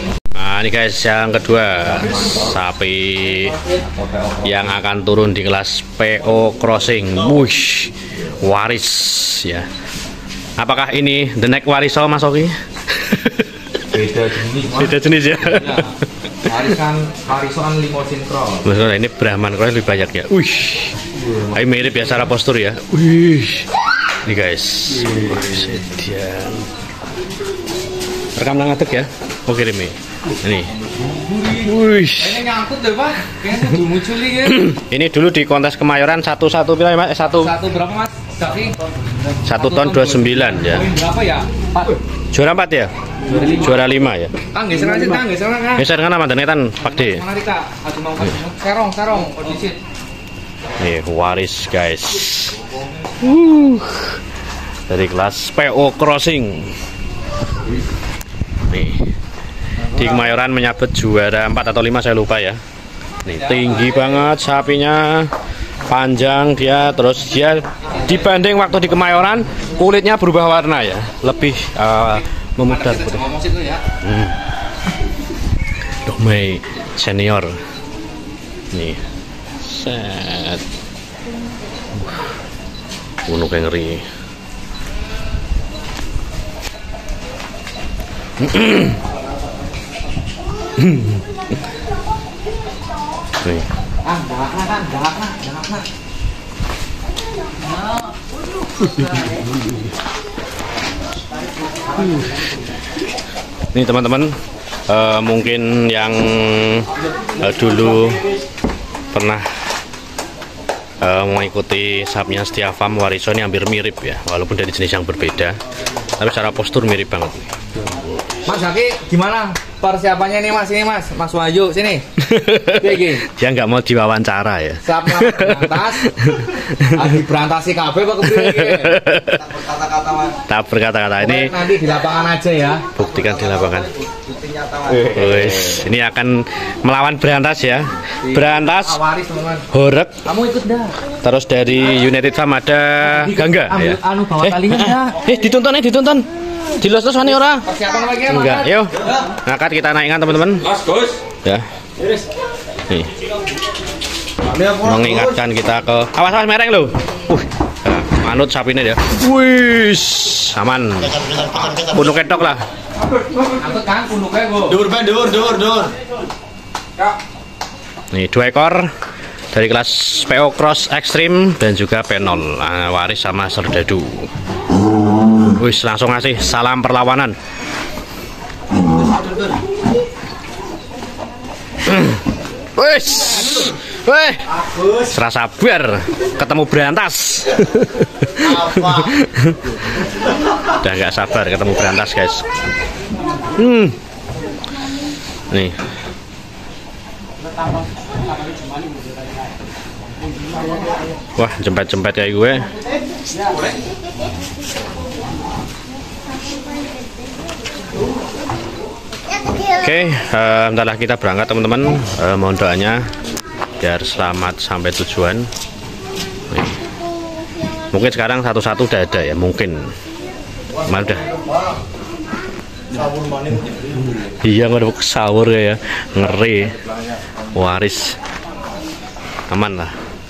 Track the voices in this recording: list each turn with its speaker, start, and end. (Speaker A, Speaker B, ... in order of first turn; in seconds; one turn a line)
Speaker A: 0.3-3.6
Speaker B: 1.9-2.5
Speaker B: 3.5-4.7
Speaker A: 4.4-9.7
Speaker A: 10.6-13.5
Speaker B: 13.9-18.7
Speaker A: 14.6-15.9
Speaker A: 18.6-23.7
Speaker A: 24.2-26.7
Speaker A: 28.4-30.7
Speaker B: 30.7-34.7
Speaker A: 31.6-32.4
Speaker A: 34.5-37.5
Speaker B: 37.4-38.8
Speaker A: 39.5-40.9
Speaker B: 39.5-42.0
Speaker A: 42.3-42.9
Speaker B: 43.2-43.8
Speaker A: 43.5-44.3
Speaker B: 44.5-45.9
Speaker A: 45.8-47.2
Speaker B: 46.8-49.8
Speaker A: 50.8-52.6
Speaker A: 53.2-54.2
Speaker A: 54.9-56.7
Speaker A: 58.7-59.1
Speaker A: 59.9-62.6
Speaker A: 63.2-65.3
Speaker B: 63.3-64.2
Speaker A: 65.8-73.2
Speaker B: 72.1-73.8
Speaker A: 74.0-74.4
Speaker A: 76.0-77.5
Speaker A: 78.7-79.0
Speaker A: 79.6-80.6
Speaker A: 83.2-84.0
Speaker A: 88.4-89.0
Speaker A: 90.8-91.2
Speaker B: 94.0-95.9
Speaker A: 103.7-104.3
Speaker A: 104.9-108.2
Speaker A: 109.1-109.5
Speaker A: 111.0-115.6
Speaker A: 116.2-118.1
Speaker B: 118.5-122.0
Speaker A: 122.2-127.1
Speaker B: 122.7-123.2
Speaker B: 124.8-126.1
Speaker B: 126.8-129.0
Speaker A: 128.2-129.5
Speaker C: 129.2-130.4
Speaker A: 130.5-131.5
Speaker B: 131.2-132.8
Speaker A: 132.9-133.9
Speaker C: 133.2-135.2
Speaker A: 135.0-139.0
Speaker B: 138.2-139.7
Speaker A: 139.7-140.2
Speaker B: 140.2-141.0
Speaker A: 141.2-146.2
Speaker B: 143.0-145.2
Speaker A: 146.8-150.7
Speaker B: 147.5-148.8
Speaker B: 150.8-151.1
Speaker C: 154.4-155.4
Speaker A: 154.8-162.6
Speaker B: 163.0-164.8
Speaker C: 164.7-165.9
Speaker A: 168.1-168.9
Speaker A: 169.5-174.3
Speaker A: 175.5-177.3
Speaker C: 179.0-179.6
Speaker A: 181.8-182.2
Speaker A: 182.8-189.7
Speaker C: 188.4-189.1
Speaker A: 190.7-192.4
Speaker A: 193.6-194.0
Speaker A: 201.3-202.7
Speaker A: 209.6-213.1
Speaker A: 213.8-215.5
Speaker A: 216.5-216.8
Speaker A: 217.9-219.9
Speaker C: 220.8-221.8
Speaker A: 220.8-221.3
Speaker C: 222.9-224.3
Speaker A: 224.4-226.8
Speaker C: 226.7-227.5
Speaker A: 227.5-228.2
Speaker A: 229.5-229.9